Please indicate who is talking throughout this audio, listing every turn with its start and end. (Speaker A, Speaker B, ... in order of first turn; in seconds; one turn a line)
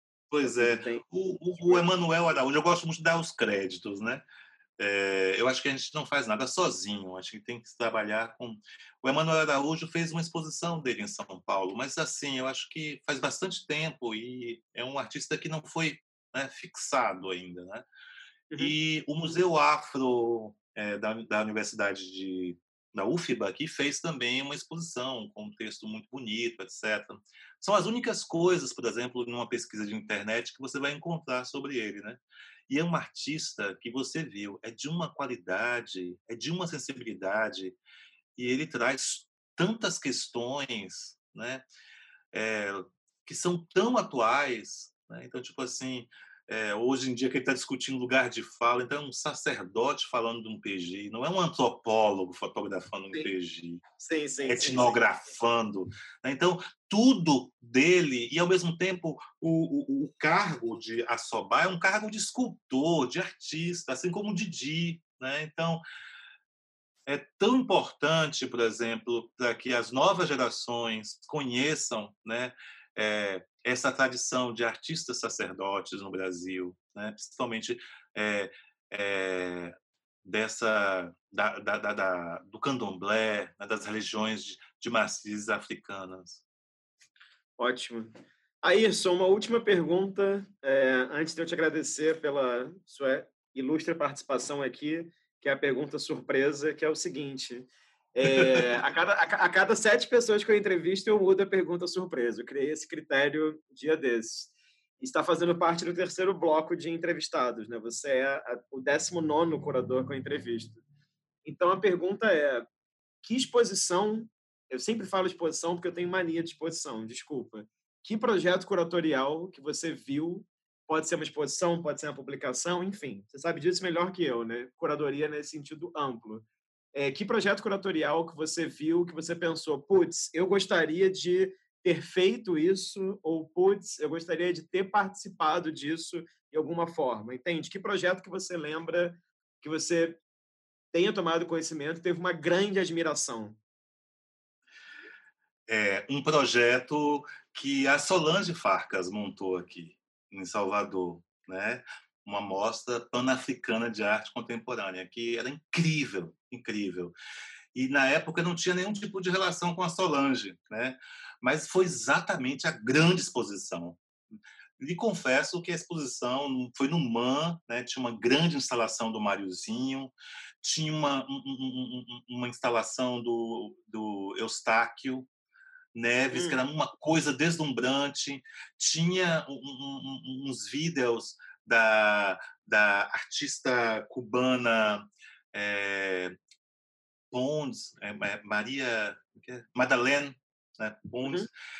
Speaker A: 0.3-4.2
Speaker B: 0.4-1.9
Speaker A: 4.8-17.9
Speaker A: 18.6-37.8
Speaker A: 38.4-41.6
Speaker A: 42.3-53.8
Speaker B: 54.0-55.0
Speaker A: 54.4-65.8
Speaker A: 67.1-86.4
Speaker B: 87.6-110.8
Speaker B: 111.4-112.7
Speaker B: 113.2-140.2
Speaker B: 140.9-143.6
Speaker A: 145.7-157.2
Speaker A: 157.7-175.3
Speaker A: 175.9-186.4
Speaker B: 176.3-176.6
Speaker A: 187.3-191.5